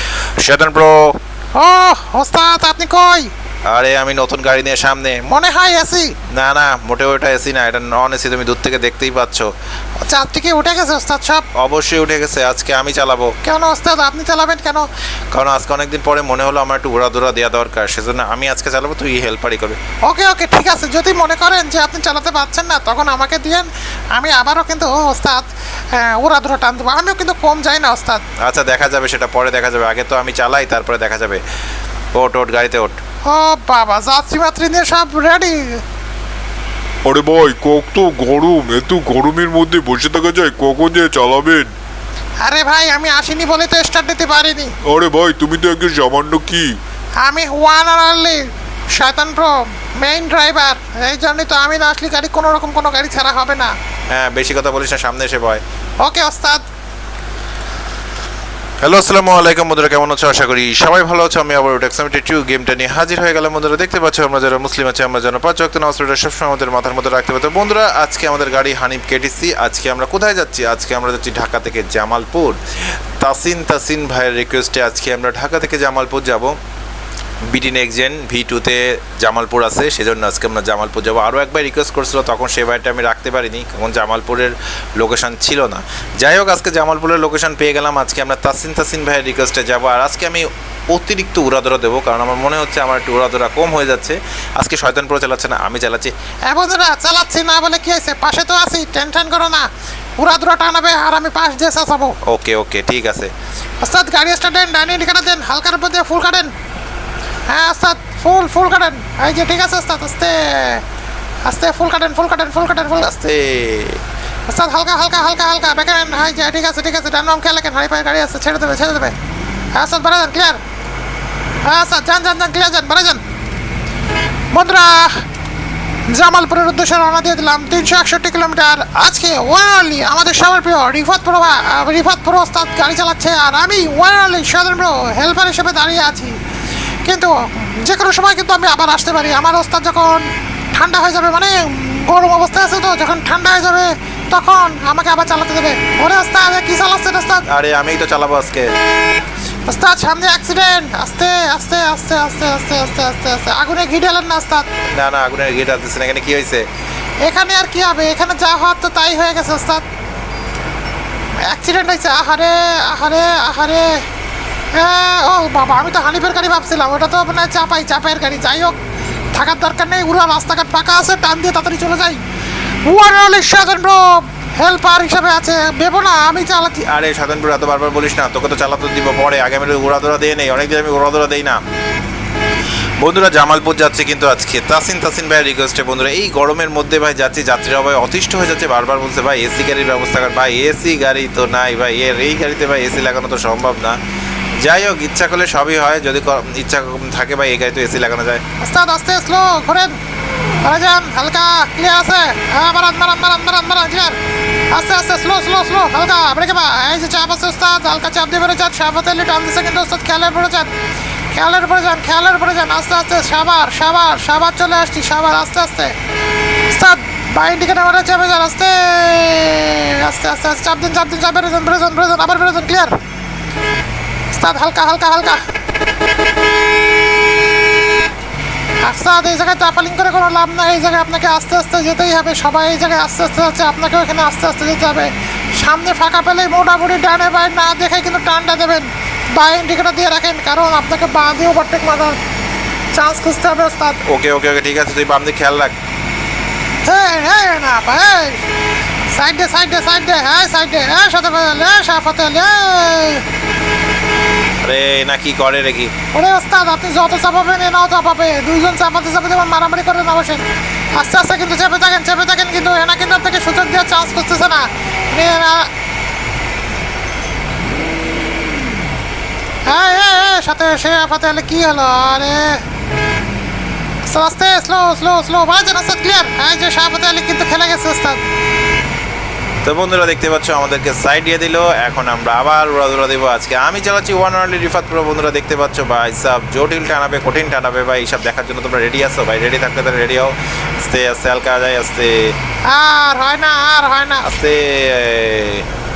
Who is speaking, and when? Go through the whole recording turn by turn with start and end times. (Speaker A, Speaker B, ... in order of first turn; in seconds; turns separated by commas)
Speaker A: 0.4-1.2, Speaker B: 1.5-3.3, Speaker A: 3.7-5.2, Speaker B: 5.2-6.2, Speaker A: 6.2-9.5, Speaker B: 10.0-11.4, Speaker A: 11.5-13.3, Speaker B: 13.4-14.9, Speaker A: 15.3-19.8, Speaker B: 20.1-28.2, Speaker A: 28.4-31.4, Speaker A: 32.1-33.0, Speaker B: 33.2-35.8, Speaker C: 37.0-41.7, Speaker B: 42.4-44.7, Speaker C: 44.8-46.7, Speaker B: 47.2-53.7, Speaker A: 54.1-55.6, Speaker B: 56.0-56.6, Speaker A: 58.8-76.5, Speaker A: 77.5-96.1, Speaker B: 96.5-99.7, Speaker B: 100.2-102.2, Speaker A: 102.2-103.3, Speaker B: 103.8-106.5, Speaker B: 107.5-110.8, Speaker B: 111.4-113.1, Speaker A: 113.0-114.0, Speaker B: 114.5-119.1, Speaker B: 119.7-120.6, Speaker B: 121.6-123.2, Speaker B: 124.5-125.2, Speaker B: 126.1-136.4, Speaker B: 137.0-147.4, Speaker A: 147.5-148.7, Speaker B: 149.7-154.7, Speaker A: 154.9-156.7, Speaker B: 157.2-159.8, Speaker B: 161.4-164.0, Speaker B: 164.7-168.8, Speaker B: 169.3-172.2, Speaker B: 172.8-176.8, Speaker A: 176.8-181.6, Speaker A: 183.0-194.0, Speaker A: 194.6-198.4, Speaker B: 198.6-200.0, Speaker B: 200.6-204.2, Speaker B: 204.7-210.7, Speaker B: 211.3-215.9, Speaker B: 216.7-223.0, Speaker B: 224.3-225.4, Speaker B: 228.8-242.2, Speaker B: 242.9-244.0, Speaker A: 244.0-245.7, Speaker B: 246.8-248.4, Speaker B: 249.1-253.2, Speaker A: 254.6-255.9, Speaker B: 256.1-260.4, Speaker B: 260.9-265.7, Speaker B: 269.6-272.6, Speaker B: 274.1-278.2, Speaker A: 279.6-292.3, Speaker B: 292.7-294.2, Speaker A: 294.2-295.7